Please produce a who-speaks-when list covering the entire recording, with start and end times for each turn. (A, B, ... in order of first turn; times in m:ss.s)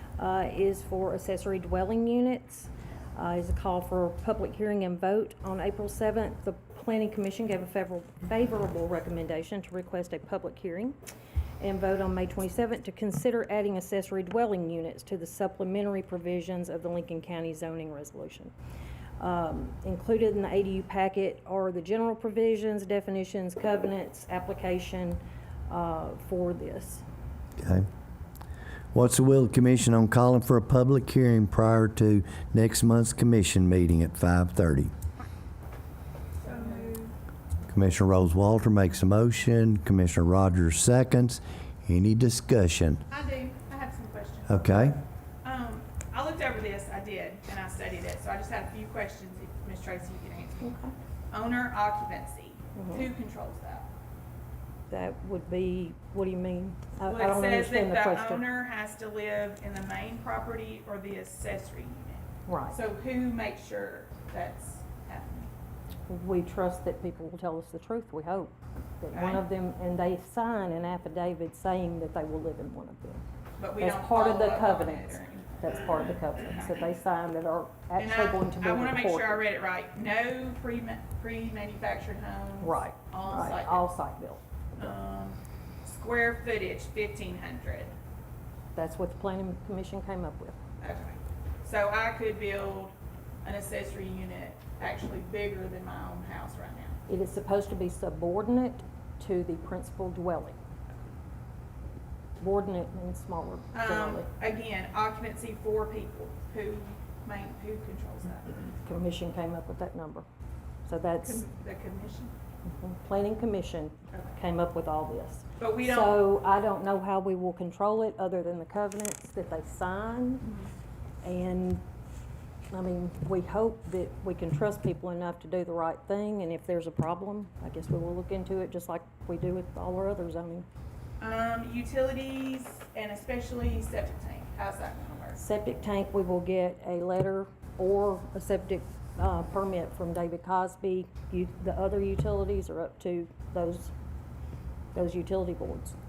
0:00.2-0:11.0 A
0:11.6-0:18.5 A
0:19.2-0:27.0 A
0:27.6-0:27.9 B
0:28.9-0:34.9 B
0:36.4-0:37.0 C
0:37.7-0:43.0 B
0:43.1-0:44.6 C
0:44.5-0:45.0 B
0:45.4-0:50.7 C
0:50.6-0:50.9 A
0:51.3-0:53.9 C
0:52.8-0:53.1 A
0:54.9-0:58.4 A
0:57.1-1:05.5 C
1:02.5-1:02.8 A
1:06.1-1:13.2 A
1:09.1-1:09.4 C
1:13.6-1:16.8 C
1:13.8-1:19.4 A
1:18.0-1:23.8 C
1:22.6-1:25.0 A
1:24.8-1:27.9 C
1:28.8-1:30.6 A
1:30.8-1:37.0 C
1:37.1-1:40.6 A
1:42.4-1:44.2 A
1:43.7-1:48.5 C
1:48.8-1:50.2 A
1:50.9-1:51.4 A
1:51.2-1:52.3 C
1:52.6-2:00.5 A
1:55.6-1:56.2 C
2:00.4-2:00.7 C
2:01.2-2:01.8 A
2:02.7-2:10.7 A
2:11.2-2:15.4 C
2:15.4-2:23.9 A
2:24.9-2:25.9 A